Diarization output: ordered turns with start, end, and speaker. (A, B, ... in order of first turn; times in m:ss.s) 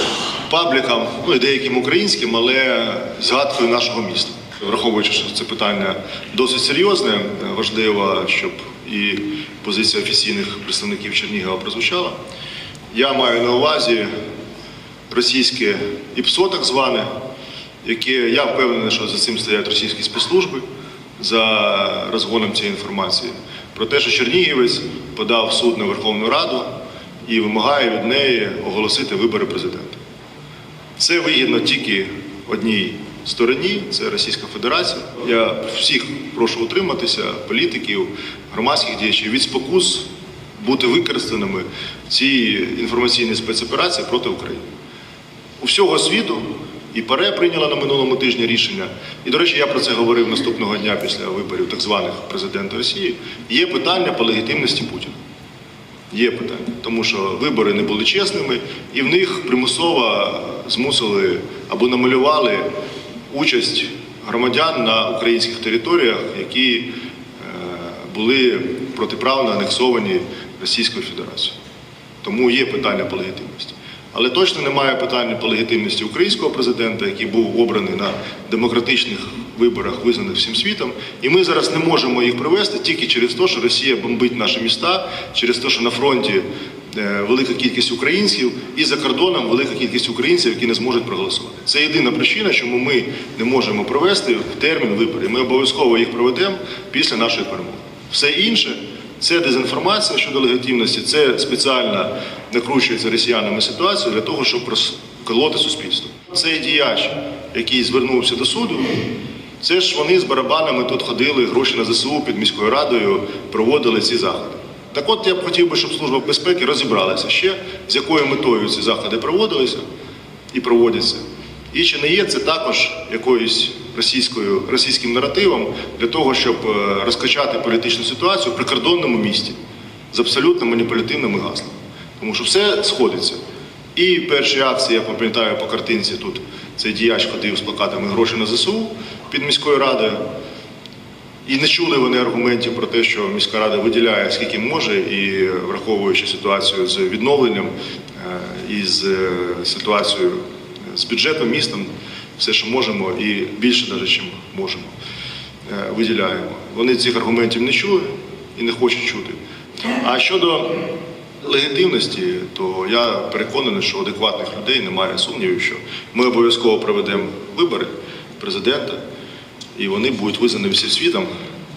0:00.5-0:12.2 A
0:12.9-0:14.1 A
0:15.1-0:17.1 A
0:17.8-0:20.6 A
0:21.2-0:26.7 A
0:27.2-0:30.0 A
0:31.0-0:44.6 A
0:45.6-0:55.2 A
0:56.1-1:02.7 A
1:03.3-1:11.6 A
1:12.2-1:49.0 A
1:49.6-1:59.8 A
2:00.5-2:09.6 A
2:10.1-2:13.4 A
2:14.0-2:20.2 A
2:21.4-2:34.9 A
2:35.7-2:39.4 A
2:39.9-2:40.8 A
2:41.4-2:49.0 A
2:49.8-2:51.3 A